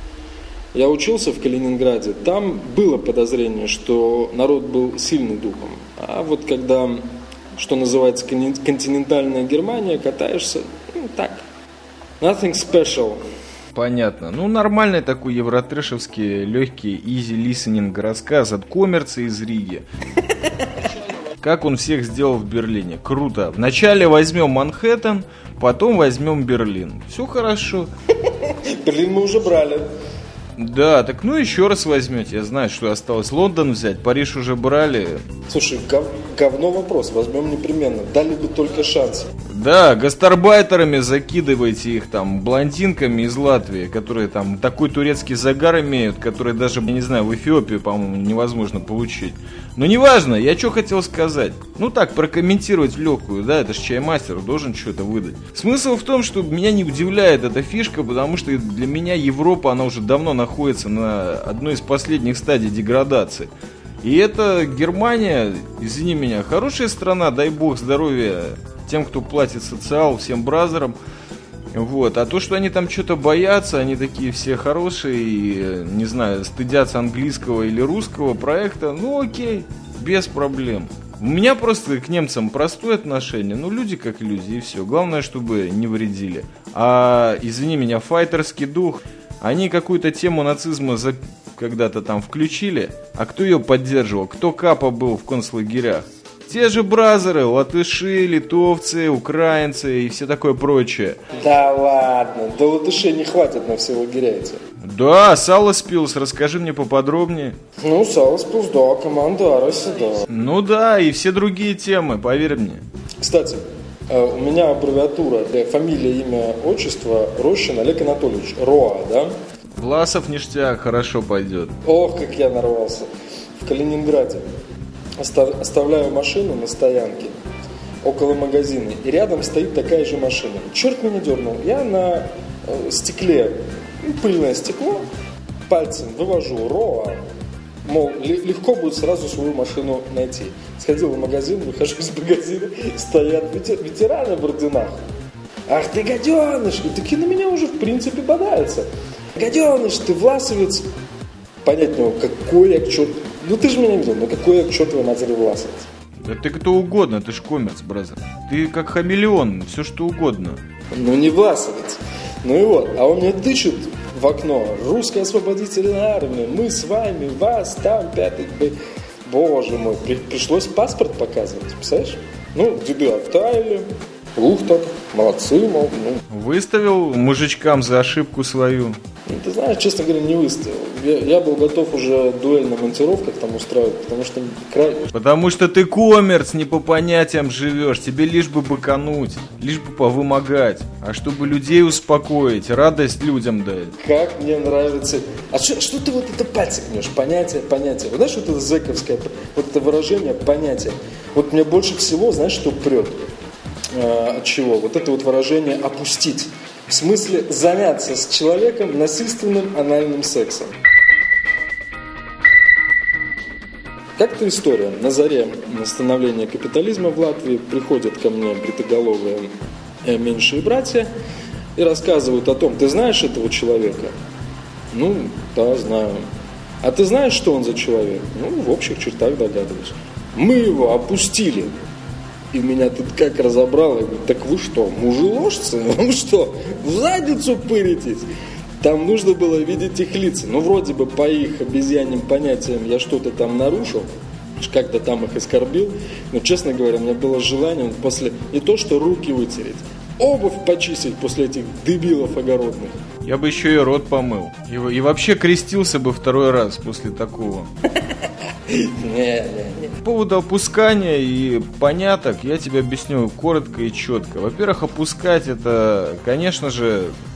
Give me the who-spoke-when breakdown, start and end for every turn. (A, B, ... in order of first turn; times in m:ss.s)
0:00.7-0:11.4 A
0:12.2-0:13.2 A
0:13.7-0:19.9 B
0:21.4-0:27.9 B
0:28.4-0:29.9 A
0:30.6-0:35.2 B
0:35.5-0:39.3 A
0:39.5-1:03.5 B
1:04.0-1:11.0 B
1:11.7-1:41.2 B
1:41.4-1:44.6 A
1:44.8-1:47.6 B
1:47.8-1:50.3 A
1:50.3-1:52.8 B
1:53.2-1:59.3 A
1:59.8-2:01.8 B
2:01.8-2:04.4 A
2:05.2-2:07.4 A
2:08.0-2:15.1 A
2:15.7-2:17.2 A
2:17.8-2:25.0 A
2:25.7-2:30.9 A
2:31.6-2:35.9 A
2:36.2-2:40.6 B
2:40.9-2:56.2 A
2:56.3-2:59.0 B
2:59.3-3:05.1 A
3:05.1-3:13.9 B
3:14.0-3:23.2 A
3:23.9-3:30.8 A
3:34.2-3:39.5 A
3:40.0-3:41.1 A
3:41.8-3:44.1 A
3:44.9-3:46.3 A
3:46.8-3:51.7 A
3:52.5-3:58.3 A
3:58.8-4:13.0 A
4:13.2-4:17.7 B
4:18.7-4:20.0 A
4:20.0-4:27.1 B